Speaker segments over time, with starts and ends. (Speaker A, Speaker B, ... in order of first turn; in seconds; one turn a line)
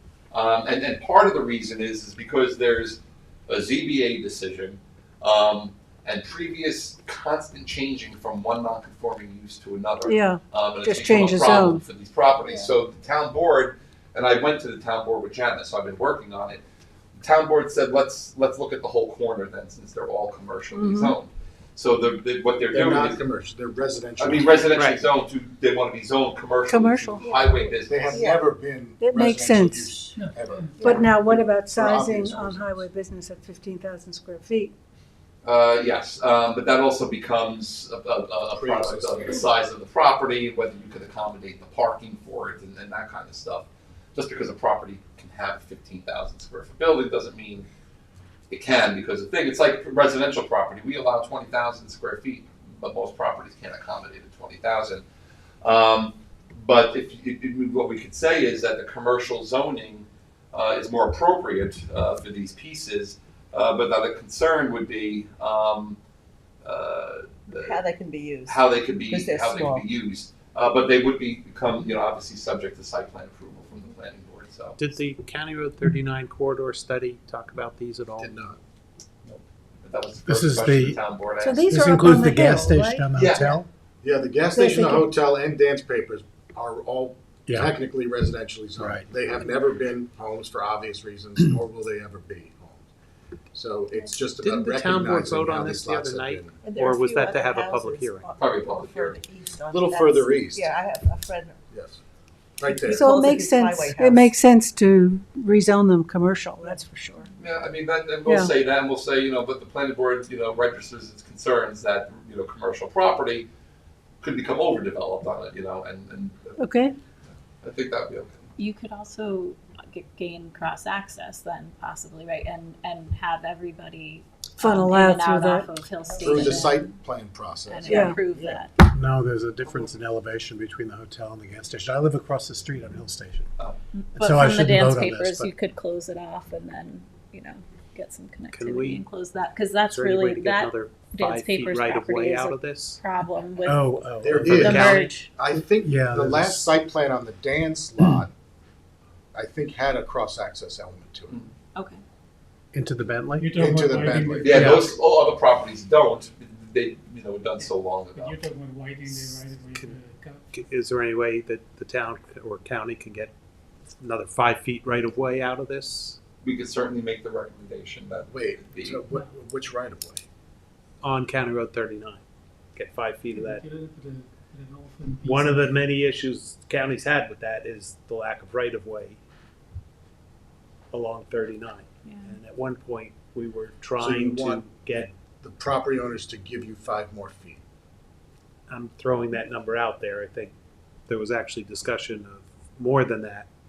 Speaker A: 0.3-16.6
Speaker B: 10.1-11.8
Speaker A: 17.2-23.2
Speaker B: 20.7-21.1
Speaker C: 22.7-24.8
Speaker A: 24.2-28.2
Speaker B: 26.7-27.4
Speaker C: 27.9-32.8
Speaker D: 28.1-28.4
Speaker B: 29.0-30.0
Speaker B: 30.8-34.7
Speaker A: 35.4-47.6
Speaker C: 38.5-39.4
Speaker A: 48.5-55.0
Speaker A: 55.6-66.0
Speaker A: 66.6-67.8
Speaker D: 67.5-69.8
Speaker A: 68.4-74.8
Speaker E: 74.8-78.3
Speaker F: 75.9-76.2
Speaker C: 78.2-78.6
Speaker A: 79.2-81.8
Speaker F: 80.2-80.9
Speaker B: 81.4-83.4
Speaker F: 81.7-83.6
Speaker E: 81.9-83.6
Speaker A: 83.2-83.5
Speaker C: 84.0-92.8
Speaker B: 84.5-85.1
Speaker E: 88.8-89.0
Speaker C: 93.5-96.6
Speaker E: 94.4-98.3
Speaker D: 96.6-101.6
Speaker A: 98.4-99.2
Speaker C: 99.7-100.7
Speaker C: 101.7-102.0
Speaker C: 102.6-103.1
Speaker D: 102.7-104.3
Speaker B: 102.9-107.3
Speaker A: 107.4-113.5
Speaker B: 108.2-108.5
Speaker A: 114.2-116.6
Speaker B: 116.6-116.9
Speaker A: 117.6-118.5
Speaker G: 118.6-127.0
Speaker B: 124.6-125.7
Speaker C: 126.2-128.6
Speaker G: 127.7-128.7
Speaker B: 127.8-128.2
Speaker F: 128.9-133.4
Speaker E: 129.5-130.2
Speaker E: 132.5-133.4
Speaker G: 133.9-145.3
Speaker F: 134.2-135.3
Speaker E: 134.5-135.5
Speaker E: 139.9-143.0
Speaker E: 143.6-145.2
Speaker F: 143.7-145.0
Speaker C: 144.2-148.3
Speaker E: 145.8-146.7
Speaker F: 145.9-146.4
Speaker C: 149.3-151.4
Speaker G: 151.7-152.0
Speaker E: 152.7-153.5
Speaker H: 153.3-154.9
Speaker C: 153.5-154.7
Speaker A: 154.4-158.4
Speaker E: 154.6-154.8
Speaker H: 157.6-160.5
Speaker E: 160.5-163.3
Speaker E: 164.0-166.2
Speaker A: 166.4-169.0
Speaker C: 168.3-170.2
Speaker E: 171.0-172.2
Speaker E: 172.7-173.6
Speaker H: 173.3-175.8
Speaker E: 175.2-179.2
Speaker E: 180.9-185.1
Speaker G: 182.0-182.3
Speaker C: 184.0-187.6
Speaker E: 188.7-190.5
Speaker E: 191.1-193.5